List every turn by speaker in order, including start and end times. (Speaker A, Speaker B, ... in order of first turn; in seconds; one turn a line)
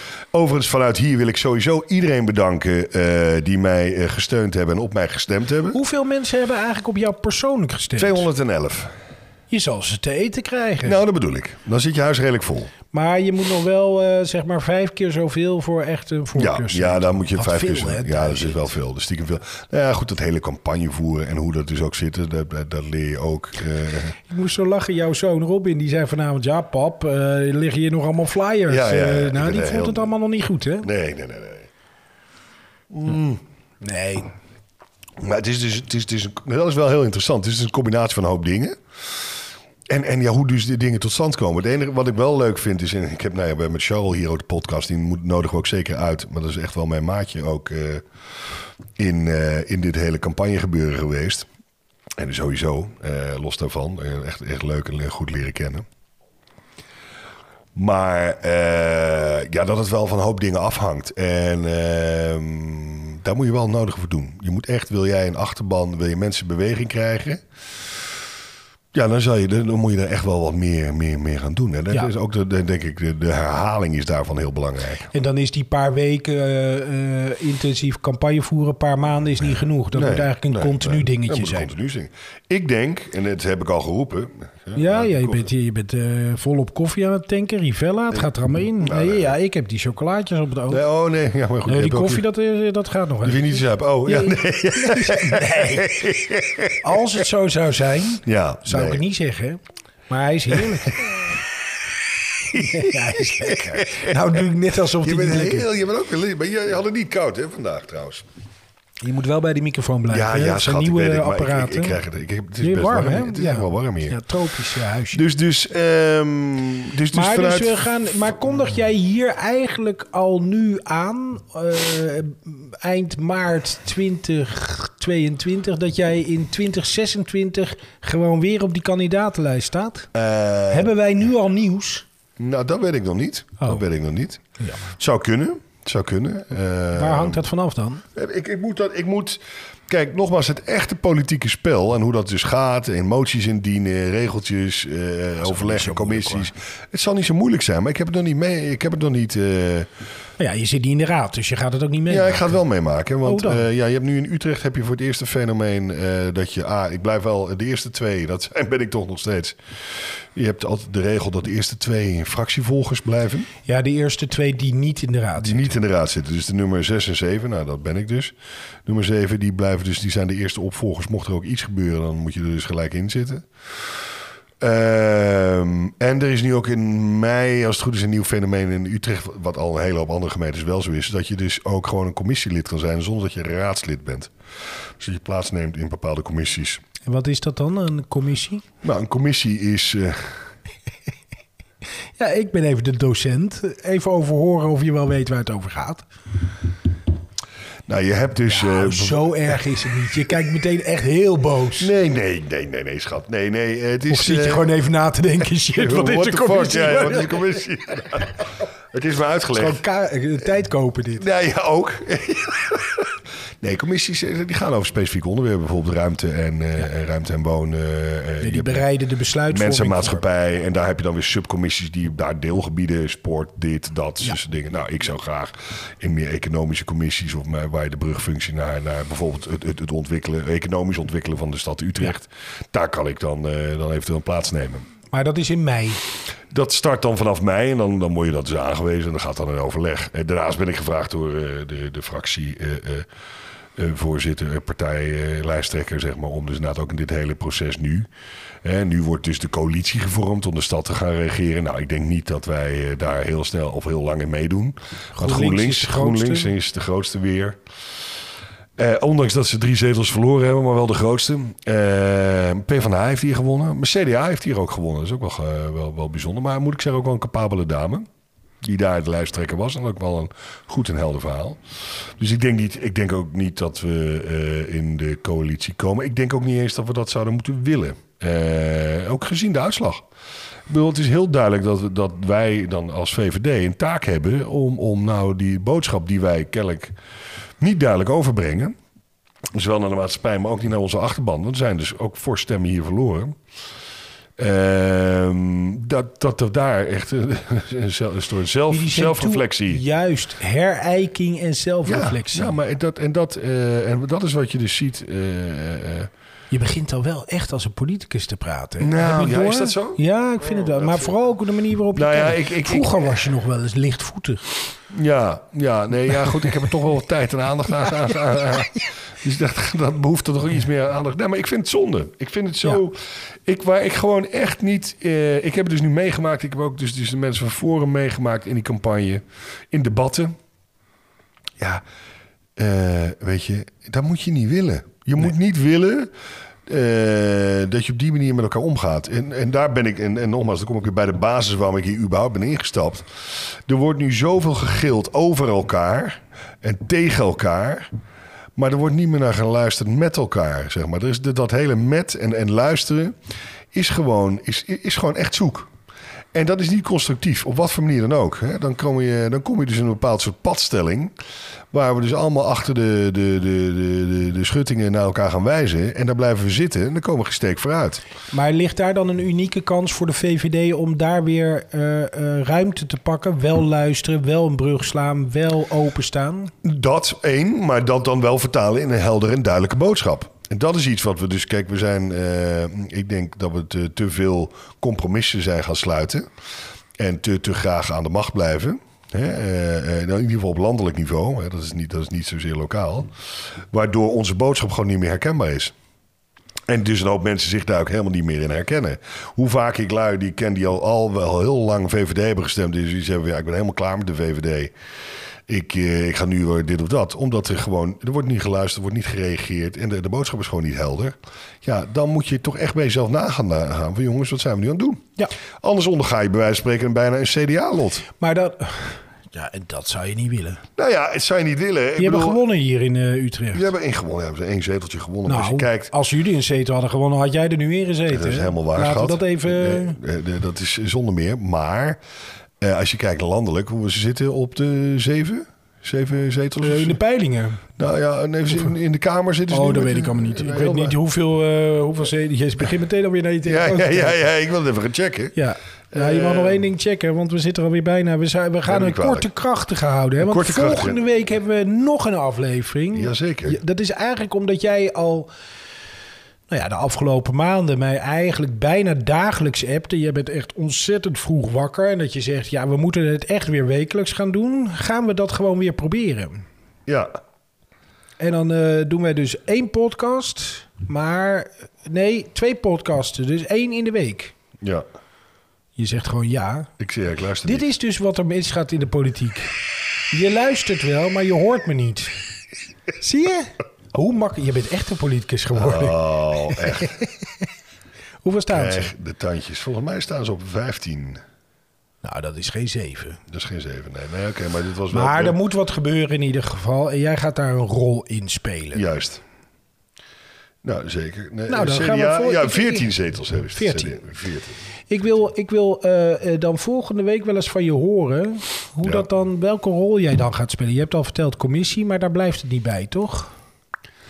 Speaker A: 0.3-5.8
Speaker B: 5.7-8.3
Speaker A: 8.0-8.9
Speaker B: 9.5-11.0
Speaker A: 10.8-12.7
Speaker B: 12.9-18.7
Speaker A: 16.4-24.1
Speaker B: 24.3-30.9
Speaker A: 28.7-30.1
Speaker A: 30.8-31.7
Speaker A: 32.9-33.4
Speaker B: 33.8-34.3
Speaker A: 35.2-38.8
Speaker A: 39.9-48.0
Speaker A: 49.0-51.5
Speaker A: 52.2-55.8
Speaker A: 57.7-67.4
Speaker A: 68.9-75.1
Speaker B: 75.1-81.7
Speaker A: 79.9-85.5
Speaker B: 84.7-90.8
Speaker A: 88.8-89.3
Speaker A: 90.7-92.2
Speaker B: 91.7-96.0
Speaker A: 93.2-96.8
Speaker B: 96.8-101.2
Speaker A: 98.2-99.0
Speaker A: 102.5-104.4
Speaker B: 102.5-105.7
Speaker A: 105.0-108.2
Speaker B: 109.0-112.0
Speaker A: 110.1-114.2
Speaker B: 112.6-115.2
Speaker A: 115.1-117.8
Speaker B: 117.1-130.1
Speaker A: 130.1-130.9
Speaker B: 130.7-132.1
Speaker A: 132.4-134.4
Speaker B: 134.6-134.9
Speaker A: 135.0-137.4
Speaker B: 136.9-138.0
Speaker A: 138.1-149.9
Speaker B: 145.4-146.5
Speaker B: 150.4-152.6
Speaker A: 152.1-159.6
Speaker B: 153.2-153.6
Speaker A: 160.3-163.5
Speaker B: 163.6-165.8
Speaker A: 165.4-168.3
Speaker A: 168.8-173.5
Speaker A: 174.6-184.3
Speaker A: 185.0-186.8
Speaker B: 187.1-188.6
Speaker A: 188.8-190.4
Speaker B: 192.2-196.0
Speaker A: 197.9-199.6
Speaker B: 198.5-201.9
Speaker A: 201.8-204.7
Speaker B: 204.1-207.4
Speaker A: 205.7-208.4
Speaker A: 208.9-209.8
Speaker B: 209.5-211.2
Speaker A: 211.2-218.9
Speaker B: 218.4-220.2
Speaker A: 219.5-234.9
Speaker B: 235.1-236.0
Speaker A: 236.5-243.1
Speaker A: 243.8-248.1
Speaker A: 248.6-257.6
Speaker B: 255.2-256.5
Speaker A: 258.8-268.1
Speaker A: 268.6-280.0
Speaker A: 280.7-286.9
Speaker A: 287.6-288.7
Speaker A: 289.5-293.4
Speaker A: 294.4-299.8
Speaker B: 298.7-302.6
Speaker A: 301.8-306.1
Speaker B: 306.5-314.5
Speaker A: 308.8-310.0
Speaker A: 310.5-311.2
Speaker A: 311.9-313.1
Speaker A: 314.9-330.3
Speaker A: 332.6-336.1
Speaker A: 336.7-343.1
Speaker A: 343.7-347.9
Speaker A: 348.6-353.1
Speaker A: 353.7-355.7
Speaker A: 356.3-361.1
Speaker A: 361.7-368.0
Speaker B: 368.3-376.5
Speaker A: 376.6-386.2
Speaker A: 387.0-393.1
Speaker A: 393.7-395.7
Speaker A: 396.7-404.7
Speaker A: 405.5-415.0
Speaker A: 415.6-418.1
Speaker B: 418.2-420.6
Speaker A: 420.8-422.4
Speaker B: 422.0-423.7
Speaker A: 423.5-425.9
Speaker B: 425.2-430.0
Speaker A: 428.1-432.0
Speaker A: 432.6-437.0
Speaker B: 436.6-437.6
Speaker A: 437.8-441.0
Speaker B: 439.5-444.2
Speaker A: 443.4-445.4
Speaker B: 445.3-455.3
Speaker A: 445.9-446.7
Speaker A: 448.6-449.3
Speaker A: 450.2-451.0
Speaker A: 452.9-453.6
Speaker B: 456.5-466.4
Speaker B: 468.2-474.3
Speaker B: 475.8-476.7
Speaker A: 476.8-477.7
Speaker B: 477.4-479.5
Speaker B: 480.1-482.2
Speaker B: 483.0-487.2
Speaker A: 485.5-486.9
Speaker B: 488.2-488.9
Speaker A: 488.5-491.2
Speaker B: 492.0-493.2
Speaker A: 493.3-495.4
Speaker B: 494.9-498.8
Speaker A: 498.7-499.2
Speaker A: 500.6-504.6
Speaker B: 501.5-502.9
Speaker B: 503.5-504.0
Speaker B: 504.9-513.3